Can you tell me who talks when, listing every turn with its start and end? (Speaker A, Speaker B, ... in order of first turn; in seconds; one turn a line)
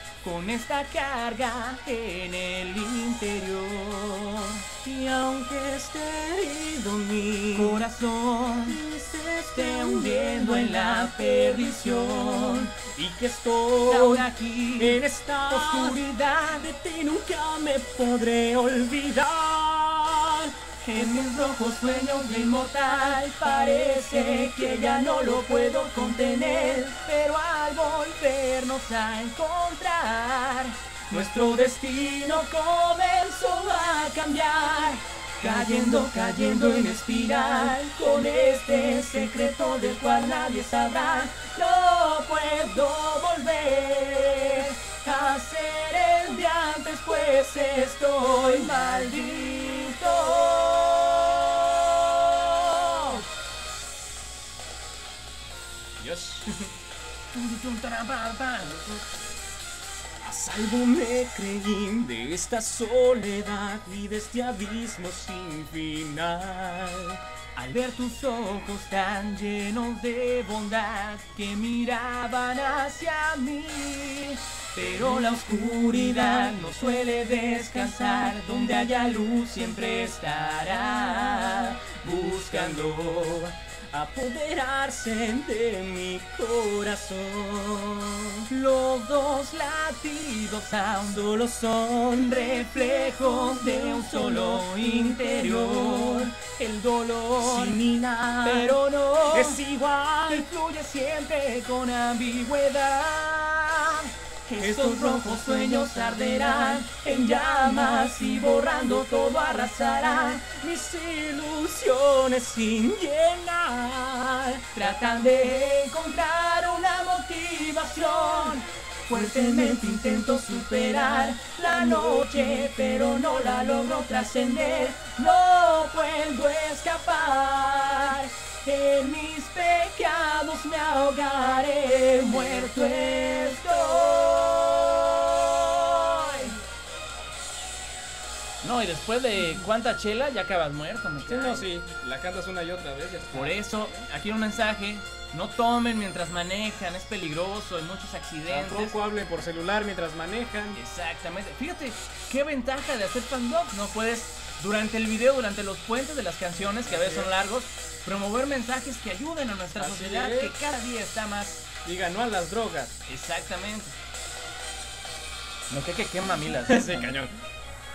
Speaker A: 0.2-4.7
Speaker B: 4.8-7.8
Speaker A: 7.5-8.8
Speaker B: 8.7-20.5
Speaker A: 9.5-12.7
Speaker A: 13.9-16.7
Speaker A: 20.8-53.2
Speaker B: 56.0-56.6
Speaker A: 57.3-58.9
Speaker B: 60.2-67.2
Speaker A: 67.5-83.5
Speaker B: 82.5-88.5
Speaker A: 88.5-91.4
Speaker B: 91.1-96.3
Speaker A: 92.1-97.8
Speaker B: 97.4-100.5
Speaker A: 98.4-99.6
Speaker A: 100.3-110.5
Speaker B: 104.6-106.8
Speaker B: 110.4-114.7
Speaker A: 114.7-136.6
Speaker B: 119.2-119.6
Speaker A: 138.6-141.7
Speaker B: 141.3-144.1
Speaker A: 143.3-149.0
Speaker B: 148.5-150.8
Speaker A: 150.7-161.7
Speaker B: 157.0-157.3
Speaker B: 159.8-160.5
Speaker B: 161.8-162.9
Speaker A: 163.1-164.0
Speaker A: 165.7-167.2
Speaker B: 166.6-167.3